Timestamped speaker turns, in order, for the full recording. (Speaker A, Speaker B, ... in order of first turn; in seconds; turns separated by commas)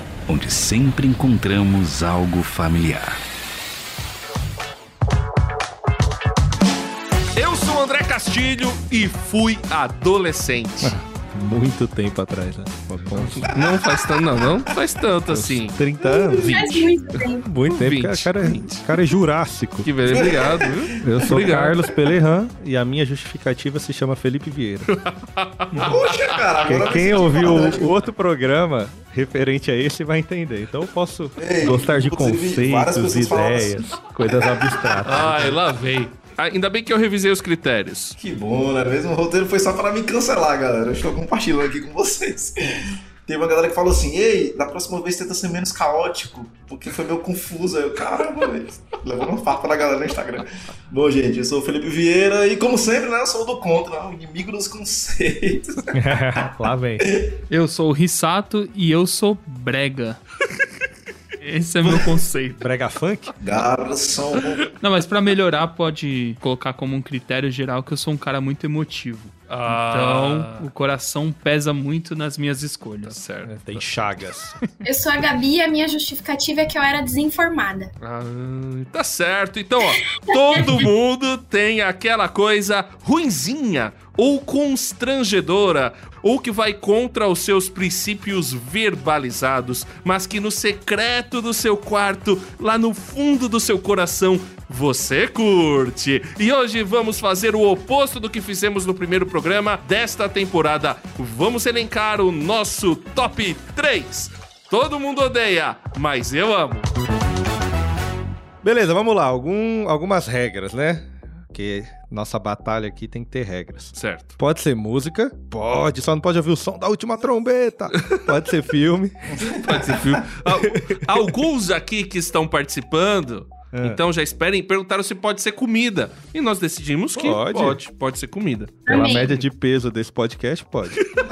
Speaker A: 0.3-3.2, Speaker B: 7.4-11.0, Speaker C: 10.8-13.5, Speaker B: 13.3-15.8, Speaker D: 13.5-13.8, Speaker C: 15.3-16.6, Speaker E: 16.1-17.5, Speaker B: 16.4-18.9, Speaker C: 17.4-19.9, Speaker B: 19.8-21.8, Speaker D: 20.1-21.3, Speaker C: 21.0-24.9, Speaker B: 24.9-26.8, Speaker D: 25.7-27.9, Speaker C: 26.6-35.6, Speaker D: 31.4-33.8, Speaker D: 34.4-35.0, Speaker B: 35.0-38.2, Speaker D: 38.2-56.0, Speaker C: 55.9-57.0, Speaker D: 57.0-57.3, Speaker F: 57.5-60.2, Speaker F: 61.4-62.6, Speaker D: 61.8-62.2, Speaker C: 62.6-63.3, Speaker D: 63.4-64.7, Speaker F: 64.8-73.2, Speaker B: 69.5-70.7, Speaker B: 73.1-73.8, Speaker C: 73.4-74.6, Speaker E: 74.8-77.9, Speaker B: 78.0-106.9, Speaker E: 80.0-80.8, Speaker C: 108.6-119.4, Speaker B: 114.0-114.3, Speaker B: 118.0-118.2, Speaker D: 119.3-120.0, Speaker B: 119.4-129.3, Speaker C: 120.5-121.3, Speaker C: 123.7-124.0, Speaker C: 127.2-127.8, Speaker E: 128.9-129.4, Speaker C: 128.9-131.0